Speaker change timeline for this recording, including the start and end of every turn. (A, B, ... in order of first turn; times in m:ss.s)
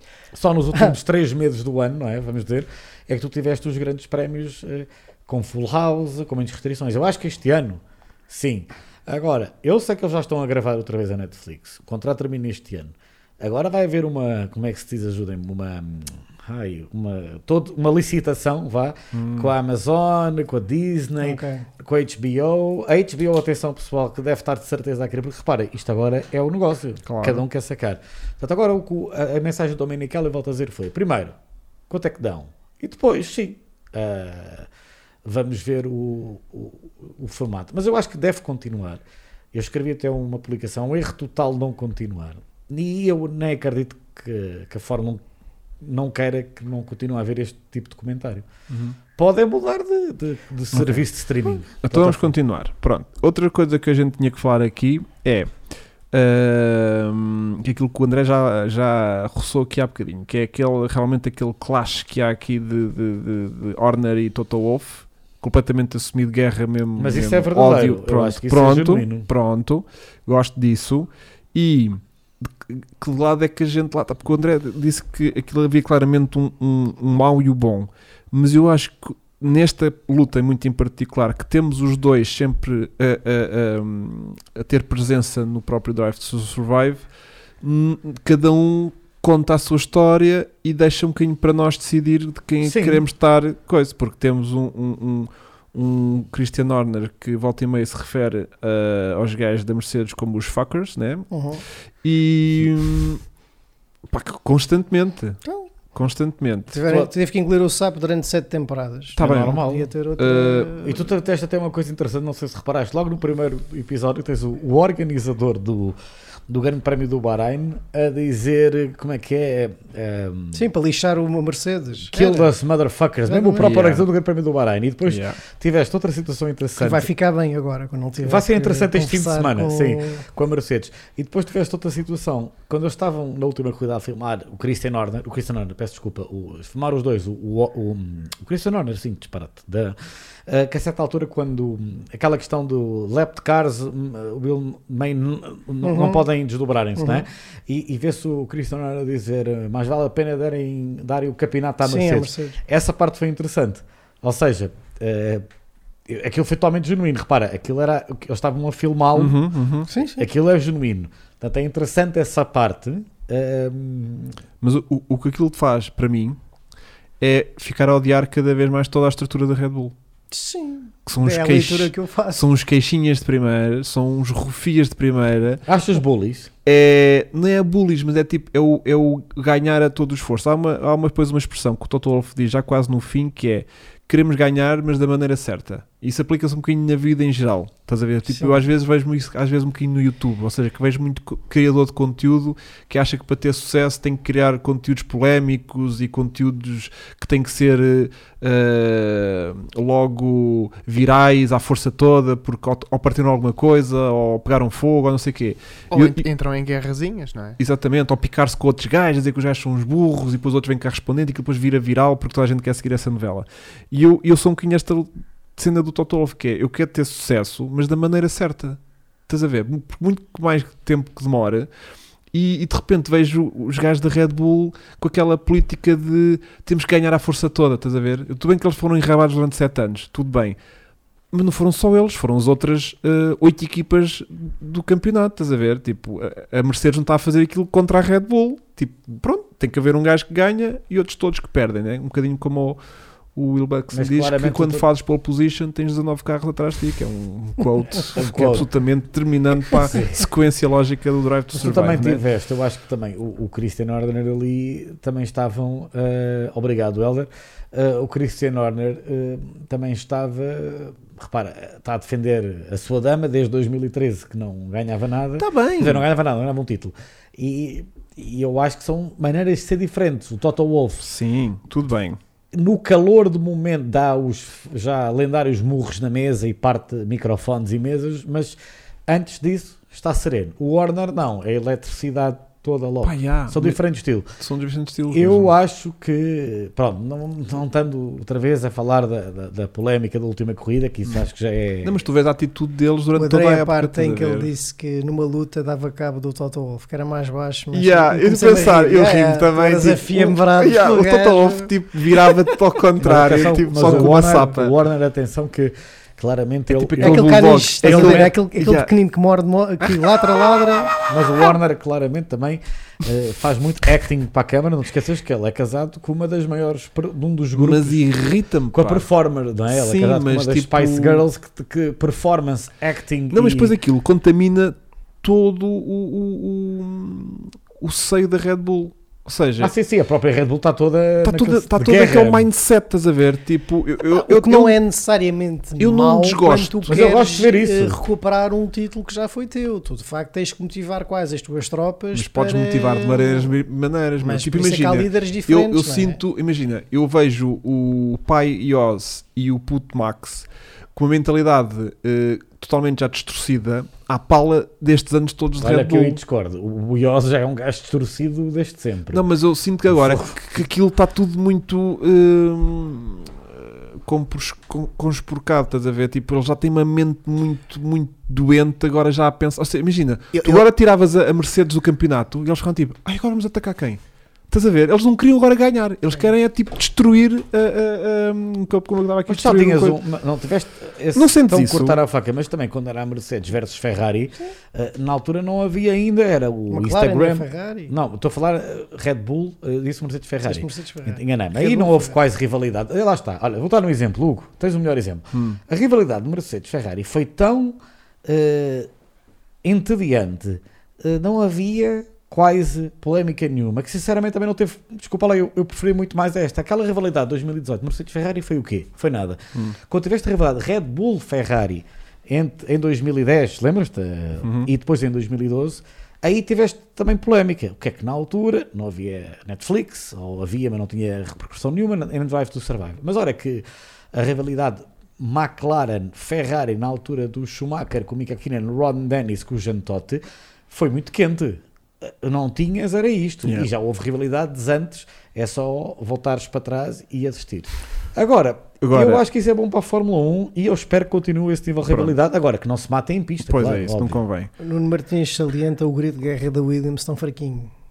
0:00.3-0:31.4 A
0:19.1-0:19.5 B
0:21.2-0:21.7 C
0:27.0-0:27.4 B
0:31.9-0:34.7 A
0:35.2-0:39.0 A
0:39.5-0:45.2 A
0:45.8-0:48.5 A
0:48.7-0:49.0 B
0:49.1-0:52.3 A
0:50.7-0:51.0 B
0:51.7-0:55.5 B
0:56.1-1:27.0 B
1:07.0-1:09.3 A
1:27.6-1:41.3 B
1:32.6-1:33.0 A
1:41.3-1:41.6 C
1:42.0-1:43.2 B
1:44.1-1:45.4 B
1:45.9-1:46.8 B
1:46.7-1:51.0 C
1:49.2-1:49.9 A
1:49.2-1:50.8 B
1:50.8-1:56.0 A
1:56.5-2:00.6 A
2:00.5-2:02.5 C
2:02.1-2:07.1 A
2:03.2-2:03.7 C
2:03.6-2:04.0 B
2:05.1-2:05.4 B
2:06.8-2:10.2 C
2:08.2-2:35.4 A
2:25.8-2:26.2 C
2:27.0-2:27.2 C
2:31.8-2:32.6 C
2:36.1-2:39.4 A
2:39.1-2:39.9 B
2:39.9-2:40.2 C
2:40.2-2:44.4 A
2:44.6-2:46.4 B
2:47.2-2:49.9 B
2:50.3-2:52.4 C
2:51.0-2:55.6 B
2:55.6-2:56.5 A
2:56.6-3:26.2 B
3:08.3-3:08.6 C
3:25.9-3:27.6 D
3:27.6-3:41.7 B
3:42.3-3:50.6 B
3:51.3-4:02.8 B
4:03.3-4:12.2 B
4:03.9-4:04.8 A
4:08.1-4:08.7 A
4:09.7-4:10.2 A
4:11.5-4:31.0 A
4:25.4-4:26.0 B
4:31.0-4:32.2 B
4:32.5-4:44.3 A
4:43.0-4:43.8 B
4:44.4-4:45.5 B
4:45.1-4:52.0 A
4:51.8-4:54.5 B
4:53.1-5:01.7 C
4:57.7-5:04.7 B
5:03.0-5:08.3 A
5:06.7-5:08.9 B
5:07.0-5:10.9 C
5:11.1-5:18.0 A
5:17.6-5:19.0 B
5:18.7-5:23.7 A
5:19.7-5:21.2 B
5:23.3-5:29.7 B
5:29.6-5:32.5 A
5:31.2-5:34.8 B
5:34.1-5:43.5 C
5:35.8-5:37.1 B
5:36.9-5:38.0 A
5:42.1-5:56.2 B
5:44.2-5:46.2 C
5:55.6-5:59.2 A
5:59.1-6:20.0 B
5:59.9-6:00.6 A
6:10.3-6:10.6 D
6:19.3-6:38.9 A
6:21.1-6:22.0 B
6:26.7-6:27.9 C
6:30.4-6:32.2 C
6:35.3-6:35.6 B
6:39.6-7:24.2 A
6:54.4-6:54.7 B
7:18.8-7:19.2 B
7:21.9-7:22.1 B
7:23.4-7:24.5 B
7:24.6-7:27.7 C